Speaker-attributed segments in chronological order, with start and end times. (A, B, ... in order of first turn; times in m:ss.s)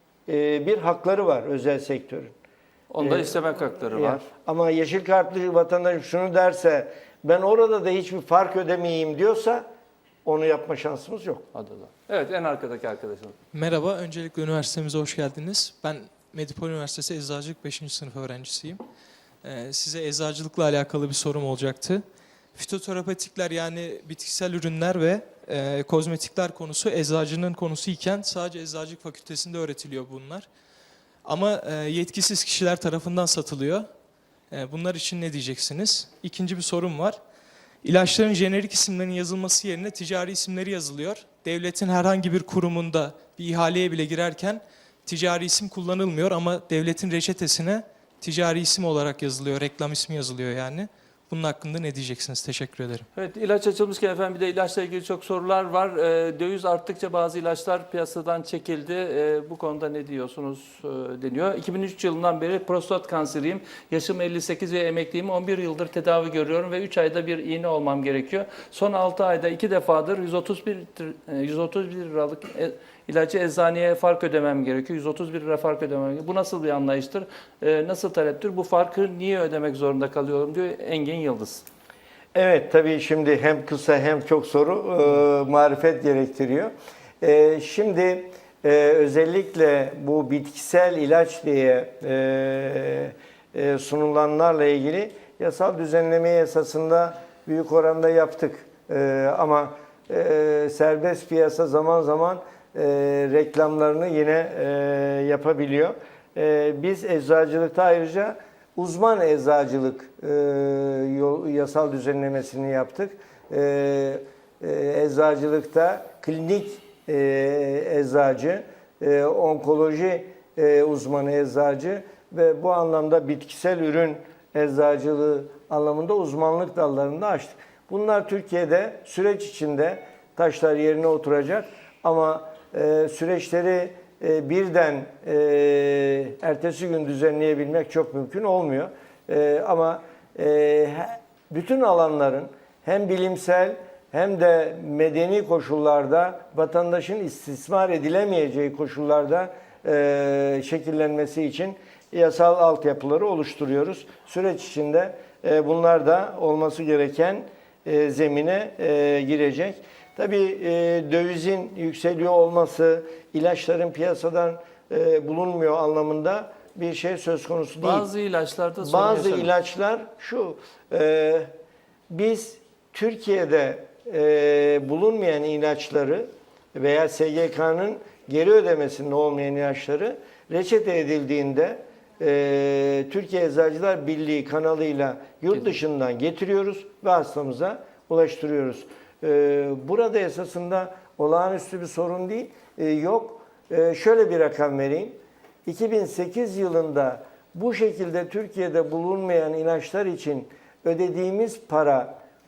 0:00.3-0:02.3 A
0:02.9-0:04.2 B
0:03.0-0:03.4 A
0:03.9-0:09.6 A
0:10.2-0:11.4 A
0:11.5-0:13.4 B
0:13.5-0:18.8 C
0:19.4-0:22.0 C
0:22.6-0:30.5 C
0:31.2-0:33.8 C
0:34.5-0:37.2 C
0:37.8-0:53.0 C
0:53.2-1:21.6 B
1:22.3-2:48.1 A
2:47.8-2:49.5 B
2:48.8-2:51.5 A
2:52.1-3:22.2 A